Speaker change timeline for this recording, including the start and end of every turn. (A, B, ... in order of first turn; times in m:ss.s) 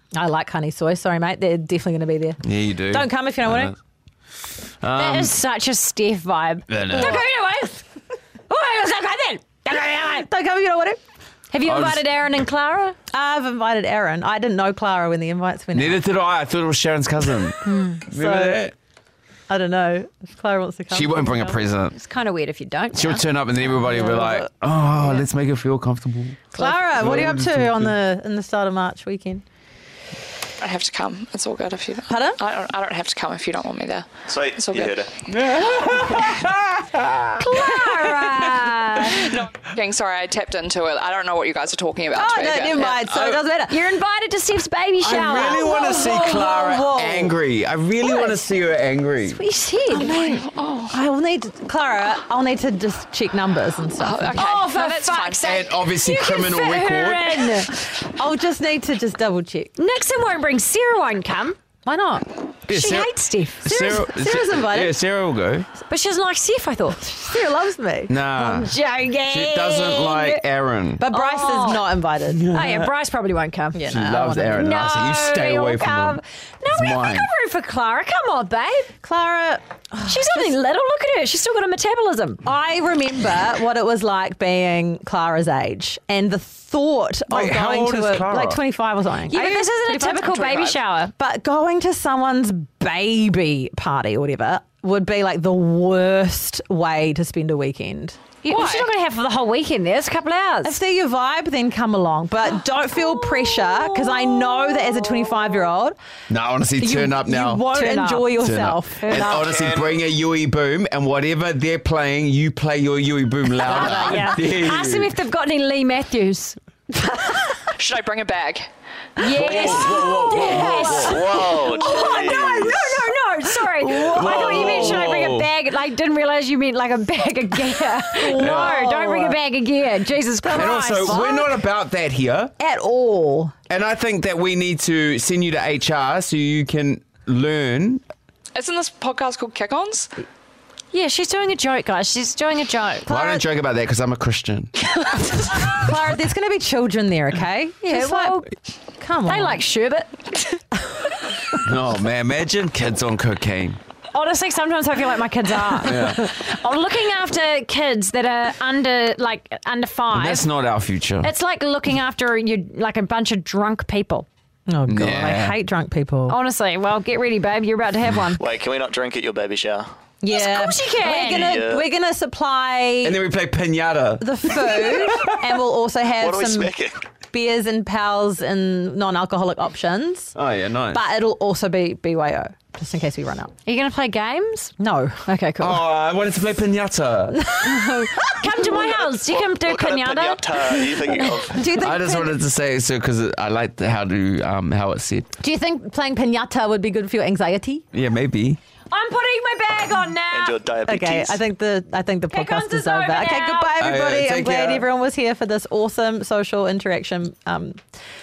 0:00.1-0:03.7 A
0:02.4-0:03.7 B
0:04.8-0:05.3 B
0:04.9-0:07.8 C
0:06.7-0:07.2 B
0:08.5-0:10.2 C
0:09.7-0:11.0 A
0:11.5-0:13.0 C
0:11.6-0:12.0 B
0:13.1-0:16.0 A
0:15.7-0:18.7 B
0:17.6-0:18.0 C
0:18.1-0:18.6 A
0:19.5-0:21.6 A
0:20.9-0:21.9 B
0:21.9-0:24.3 C
0:22.9-0:27.9 B
0:23.9-0:24.4 A
0:26.5-0:26.8 C
0:26.6-0:29.4 A
0:30.6-0:35.1 D
0:32.1-0:32.4 A
0:34.3-0:35.1 E
0:35.3-0:38.1 B
0:37.4-0:39.3 C
0:39.2-0:43.0 D
0:42.1-0:43.8 A
0:43.1-0:43.4 B
0:43.7-0:46.5 C
0:45.0-0:49.4 B
0:45.5-0:47.4 A
0:49.2-0:50.2 C
0:49.9-0:54.4 A
0:50.1-0:51.0 D
0:54.0-0:55.6 D
0:54.3-0:57.8 C
0:55.4-0:57.6 B
0:58.0-0:59.7 A
0:59.8-1:01.6 C
1:01.8-1:02.2 A
1:02.7-1:03.1 B
1:02.7-1:03.7 C
1:03.6-1:05.7 B
1:03.6-1:05.0 A
1:05.8-1:07.0 C
1:07.0-1:08.2 A
1:08.1-1:08.7 B
1:08.3-1:10.4 C
1:09.3-1:11.1 B
1:11.0-1:12.4 A
1:11.1-1:11.8 C
1:12.3-1:12.9 B
1:12.5-1:13.9 C
1:13.7-1:14.6 A
1:13.9-1:17.3 B
1:14.5-1:18.9 C
1:19.0-1:20.5 A
1:20.0-1:22.4 C
1:22.4-1:38.9 A
1:27.3-1:28.6 B
1:29.3-1:31.1 C
1:38.4-1:40.8 C
1:40.6-1:46.0 A
1:46.3-1:47.7 B
1:46.8-1:49.4 A
1:47.7-1:48.4 C
1:48.3-1:55.1 B
1:49.0-1:49.4 C
1:49.4-1:50.0 E
1:53.6-1:56.6 C
1:57.1-1:57.4 A
1:57.8-1:58.7 D
1:59.2-2:11.3 C
1:59.3-2:01.3 B
2:00.5-2:03.0 E
2:01.8-2:02.4 A
2:03.8-2:05.5 B
2:04.2-2:04.8 A
2:08.2-2:09.4 A
2:08.3-2:08.8 B
2:10.4-2:11.5 A
2:10.5-2:12.5 B
2:12.6-2:13.5 A
2:13.7-2:18.0 B
2:18.5-2:20.1 D
2:20.9-2:23.0 C
2:23.1-2:23.4 A
2:23.1-2:24.7 B
2:25.5-2:28.4 A
2:27.9-2:28.5 C
2:29.0-2:29.6 A
2:29.2-2:30.4 C
2:31.6-2:33.8 B
2:34.1-2:40.5 C
2:35.8-2:36.2 B
2:40.1-2:41.3 B
2:41.2-2:44.3 C
2:44.7-2:46.4 A
2:44.9-2:45.6 B
2:46.3-2:48.4 C
2:48.4-2:49.9 E
2:50.2-2:53.2 A
2:50.3-2:51.6 C
2:51.0-2:51.9 E
2:53.0-2:55.3 B
2:54.2-2:56.7 A
2:56.2-2:56.9 E
2:57.3-3:00.3 A
3:00.3-3:01.0 B
3:00.9-3:03.5 A
3:03.6-3:04.7 C
3:04.8-3:05.3 A
3:05.3-3:05.8 C
3:05.6-3:07.4 B
3:07.3-3:08.7 A
3:07.6-3:11.0 C
3:08.7-3:11.6 E
3:11.2-3:12.4 A
3:11.7-3:15.3 B
3:15.4-3:17.8 A
3:17.9-3:18.6 B
3:18.9-3:20.6 C
3:20.3-3:21.4 E
3:20.8-3:27.8 A
3:22.3-3:23.8 C
3:23.8-3:24.8 B